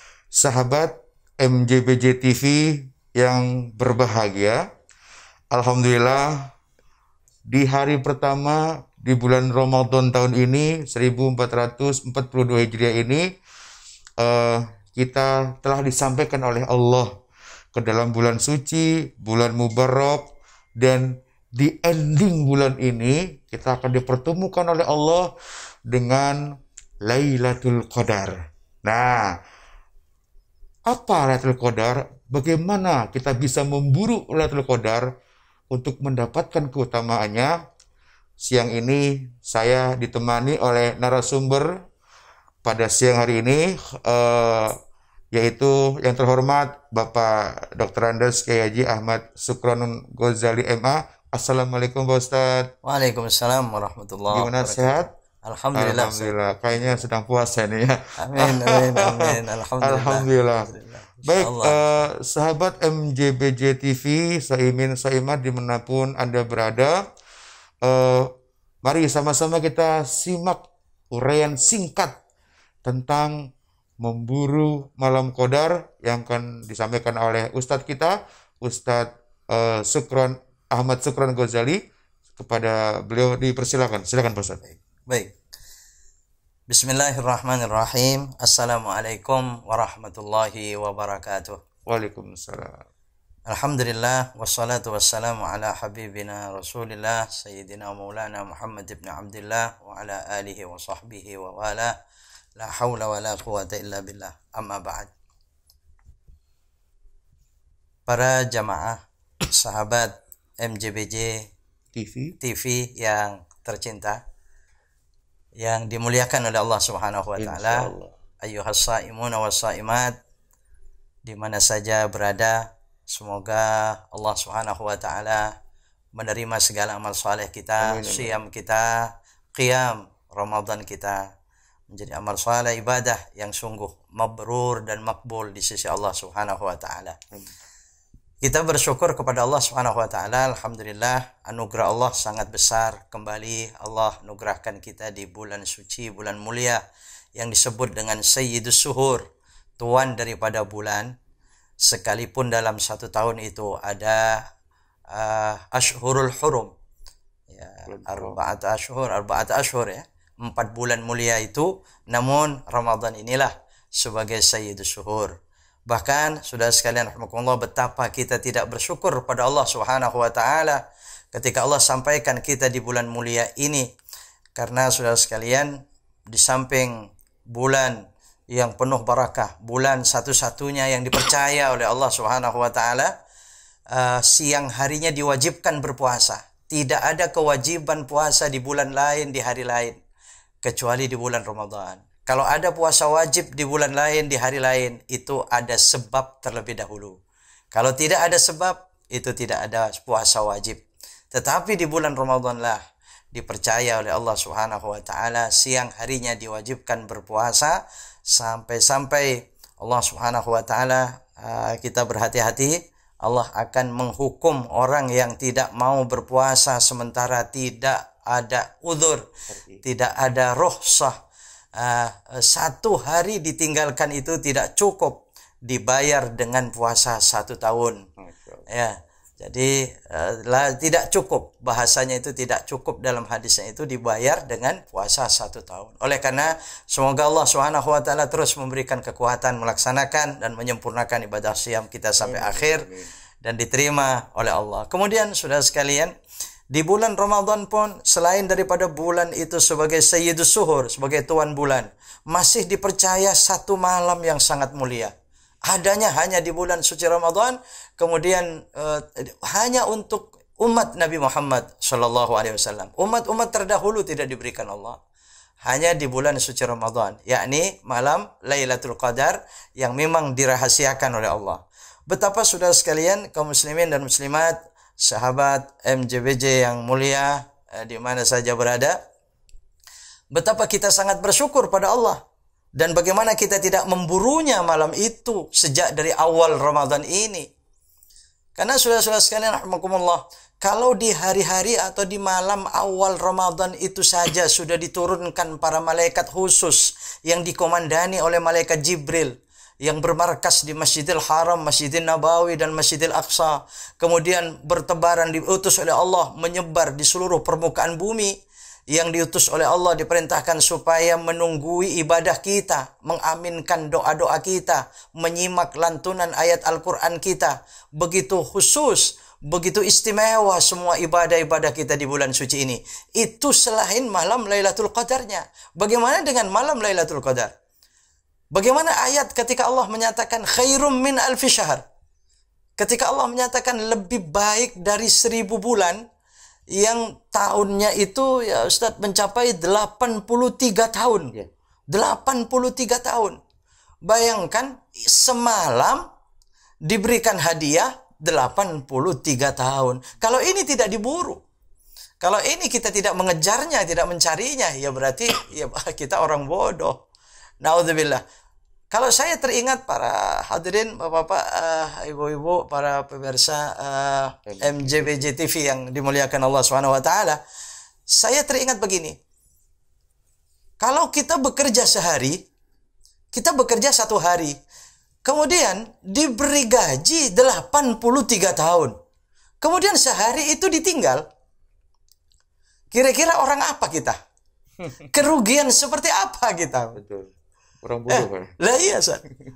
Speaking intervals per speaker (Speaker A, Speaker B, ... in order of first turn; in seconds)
Speaker A: 0.4-4.6, 5.5-6.5, 7.5-13.2, 14.2-17.1, 17.7-20.2, 20.8-25.3, 25.9-26.4, 27.1-28.3, 28.9-29.3, 30.9-35.1, 35.7-37.5, 38.4-41.7, 42.6-44.7, 45.3-52.7, 54.3-55.1, 55.8-59.3, 59.8-60.7, 61.3-67.0, 67.8-68.3, 68.8-72.1, 72.8-73.5, 74.0-81.8, 82.3-84.6, 91.9-92.8, 111.9-112.3, 117.4-118.2, 127.8-128.4, 157.9-158.4, 219.5-219.8, 228.2-228.6, 242.2-243.1, 364.5-365.3, 386.9-387.3, 387.8-388.5
Speaker B: 52.8-57.0, 58.2-62.0, 84.7-85.3, 86.7-91.6, 93.5-101.9, 102.6-105.1, 108.1-111.4, 112.4-114.2, 115.6-117.9, 118.4-120.1, 121.2-122.6, 123.1-125.5, 126.1-129.0, 129.6-131.2, 131.9-137.2, 138.4-146.8, 147.4-149.2, 149.8-151.1, 151.8-154.4, 155.1-156.7, 157.5-165.3, 165.9-170.8, 171.3-173.8, 174.5-175.7, 176.3-176.9, 177.5-178.0, 178.5-183.1, 183.9-189.9, 190.6-197.1, 197.7-200.8, 201.3-202.8, 203.3-207.8, 208.3-219.3, 219.8-221.1, 221.8-228.0, 228.7-242.8, 243.4-246.1, 246.7-255.1, 255.7-265.0, 265.6-278.9, 280.3-282.2, 282.8-287.5, 288.6-299.3, 299.8-308.3, 308.9-327.5, 328.5-331.8, 332.8-336.0, 336.8-341.3, 341.9-343.4, 344.1-346.0, 346.9-351.4, 352.2-357.0, 357.6-358.2, 358.9-367.4, 368.1-369.2, 370.8-372.4, 373.3-374.5, 375.2-378.9, 379.6-381.2, 382.9-384.2, 385.0-387.0, 388.1-389.2